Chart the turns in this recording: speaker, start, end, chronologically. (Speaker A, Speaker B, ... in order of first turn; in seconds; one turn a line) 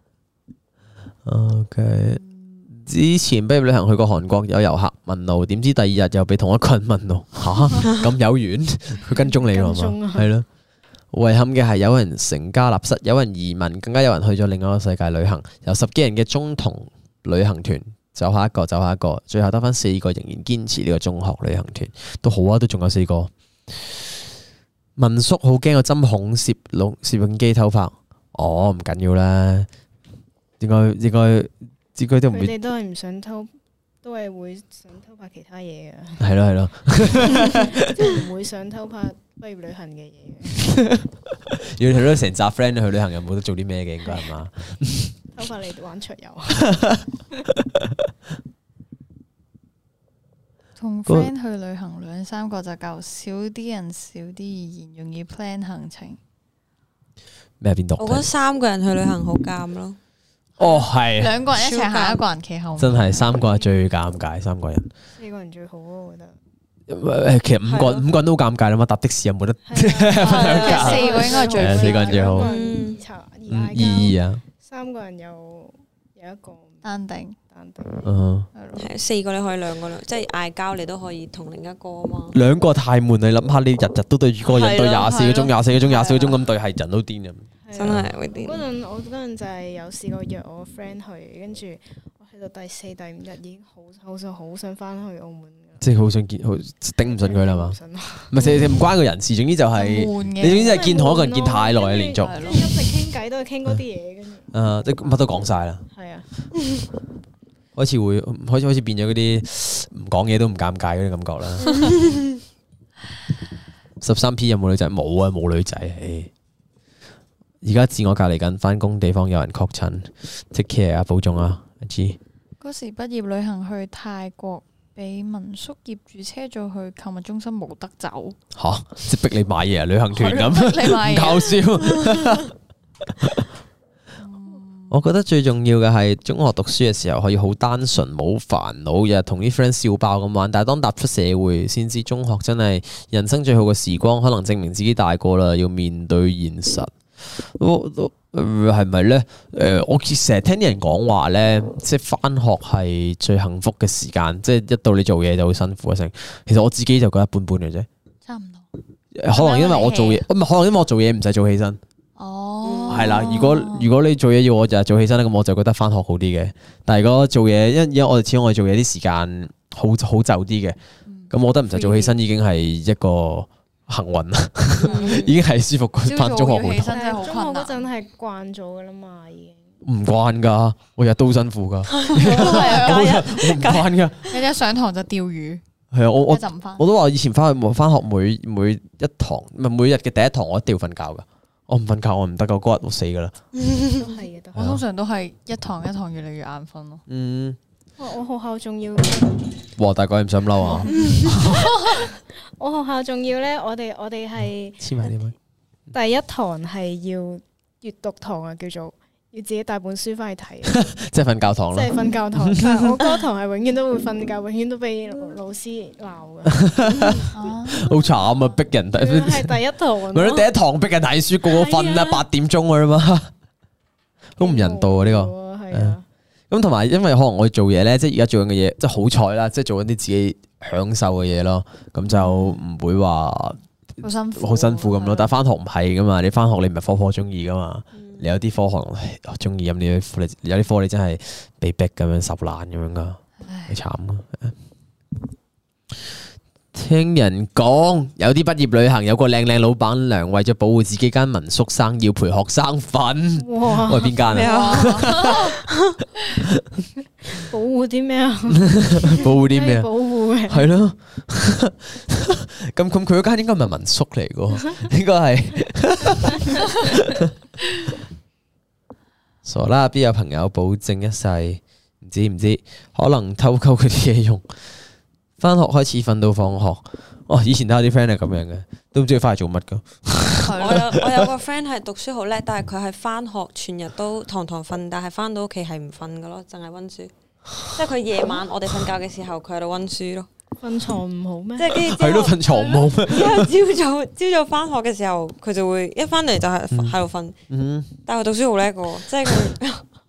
Speaker A: 1.2-10.4
Speaker B: 2.1-2.7
Speaker C: 9.2-10.3
Speaker A: 11.1-24.1
Speaker A: 25.0-29.7
Speaker A: 30.6-32.5
Speaker C: 32.3-33.5
Speaker C: 34.0-36.3
Speaker A: 36.2-38.0
Speaker C: 37.1-40.6
Speaker A: 40.6-45.1
Speaker C: 44.0-44.3
Speaker C: 45.3-47.4
Speaker A: 46.6-47.0
Speaker A: 47.5-47.9
Speaker B: 50.8-56.2
Speaker A: 57.6-58.3
Speaker D: 58.0-60.0
Speaker A: 60.6-61.4
Speaker B: 60.6-63.4
Speaker D: 61.5-62.2
Speaker A: 62.8-64.9
Speaker C: 65.2-66.3
Speaker A: 66.9-72.5
Speaker D: 67.6-68.1
Speaker C: 69.7-76.8
Speaker D: 70.1-71.4
Speaker B: 70.2-72.3
Speaker D: 72.3-73.0
Speaker A: 73.5-74.4
Speaker B: 73.8-74.1
Speaker B: 76.8-77.4
Speaker C: 77.5-78.1
Speaker A: 78.0-78.5
Speaker B: 78.5-78.9
Speaker D: 78.8-82.4
Speaker A: 82.3-88.1
Speaker D: 84.4-86.4
Speaker C: 87.6-95.8
Speaker D: 87.7-88.7
Speaker A: 95.8-97.8
Speaker C: 97.0-98.5
Speaker A: 98.3-102.7
Speaker B: 99.7-100.9
Speaker C: 100.5-106.3
Speaker B: 102.2-102.7
Speaker A: 104.5-105.8
Speaker A: 107.8-112.0
Speaker A: 114.0-116.3
Speaker A: 117.6-122.2
Speaker B: 122.6-128.4
Speaker A: 128.5-132.5
Speaker B: 130.1-131.6
Speaker A: 133.2-133.4
Speaker B: 134.2-134.9
Speaker A: 134.9-157.9
Speaker B: 158.2-158.7
Speaker A: 159.1-161.8
Speaker B: 159.3-160.2
Speaker B: 162.2-163.9
Speaker D: 162.6-163.5
Speaker A: 162.9-170.8
Speaker B: 171.1-172.2
Speaker A: 171.3-177.0
Speaker D: 174.8-175.4
Speaker B: 174.9-175.2
Speaker B: 176.0-177.9
Speaker C: 176.9-179.6
Speaker A: 179.8-184.2
Speaker D: 181.9-184.3
Speaker B: 182.2-183.0
Speaker B: 184.3-185.6
Speaker A: 185.9-193.3
Speaker B: 186.3-186.8
Speaker D: 193.6-194.1
Speaker C: 193.9-194.7
Speaker A: 194.5-194.8
Speaker B: 194.5-197.0
Speaker A: 197.1-197.6
Speaker C: 198.0-199.4
Speaker A: 199.8-201.5
Speaker C: 200.6-204.9
Speaker A: 204.8-205.3
Speaker C: 205.9-210.8
Speaker A: 210.7-213.2
Speaker C: 211.7-217.2
Speaker A: 216.5-223.3
Speaker B: 217.3-217.9
Speaker C: 218.9-220.5
Speaker C: 221.4-222.2
Speaker A: 224.4-225.9
Speaker C: 224.4-226.0
Speaker A: 226.5-233.6
Speaker B: 232.1-232.6
Speaker B: 234.0-235.3
Speaker A: 234.3-244.5
Speaker D: 237.9-238.2
Speaker B: 243.4-243.8
Speaker A: 246.7-255.5
Speaker C: 253.3-254.2
Speaker D: 254.2-255.9
Speaker B: 254.3-255.5
Speaker A: 256.4-256.8
Speaker C: 257.2-260.7
Speaker A: 258.6-259.9
Speaker A: 260.5-267.3
Speaker A: 269.4-274.8
Speaker A: 275.4-281.3
Speaker B: 280.4-280.8
Speaker D: 280.5-287.1
Speaker D: 287.6-290.3
Speaker C: 290.6-291.9
Speaker D: 291.6-297.4
Speaker A: 291.7-293.5
Speaker A: 296.7-297.0
Speaker A: 297.5-297.9
Speaker D: 298.0-299.8